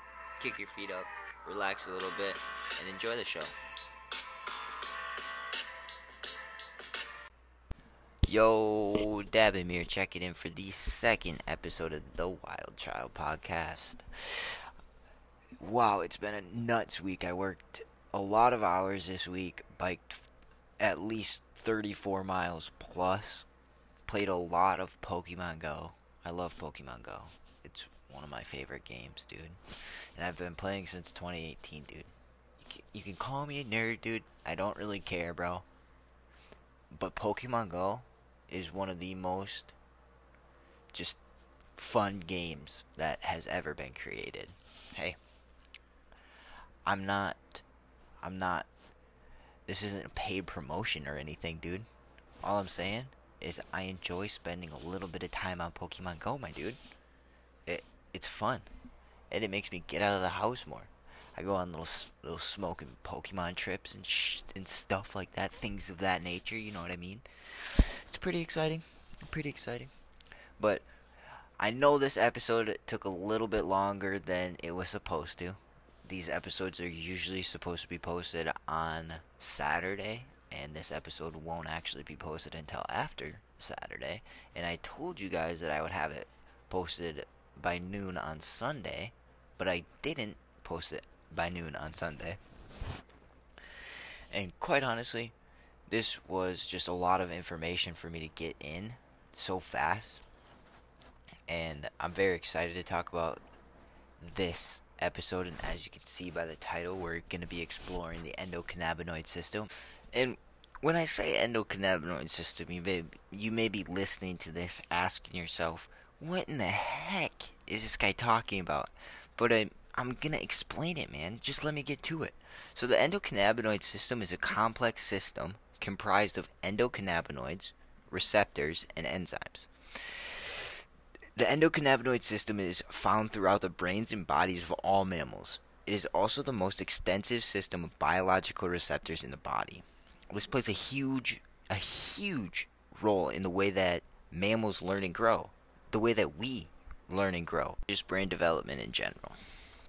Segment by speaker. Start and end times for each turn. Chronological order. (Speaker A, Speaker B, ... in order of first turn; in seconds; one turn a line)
Speaker A: 0.4-3.5
Speaker A: 8.2-14.7
Speaker A: 15.6-20.3
Speaker A: 20.8-23.5
Speaker A: 24.1-35.6
Speaker A: 36.9-39.7
Speaker A: 40.9-41.2
Speaker A: 41.8-45.2
Speaker A: 46.9-47.6
Speaker A: 48.2-48.7
Speaker A: 49.7-51.9
Speaker A: 52.4-56.8
Speaker A: 57.6-58.7
Speaker A: 59.3-69.9
Speaker A: 70.6-70.8
Speaker A: 71.6-92.4
Speaker A: 93.7-95.3
Speaker A: 95.9-100.2
Speaker A: 101.5-103.4
Speaker A: 104.2-130.7
Speaker A: 131.3-149.4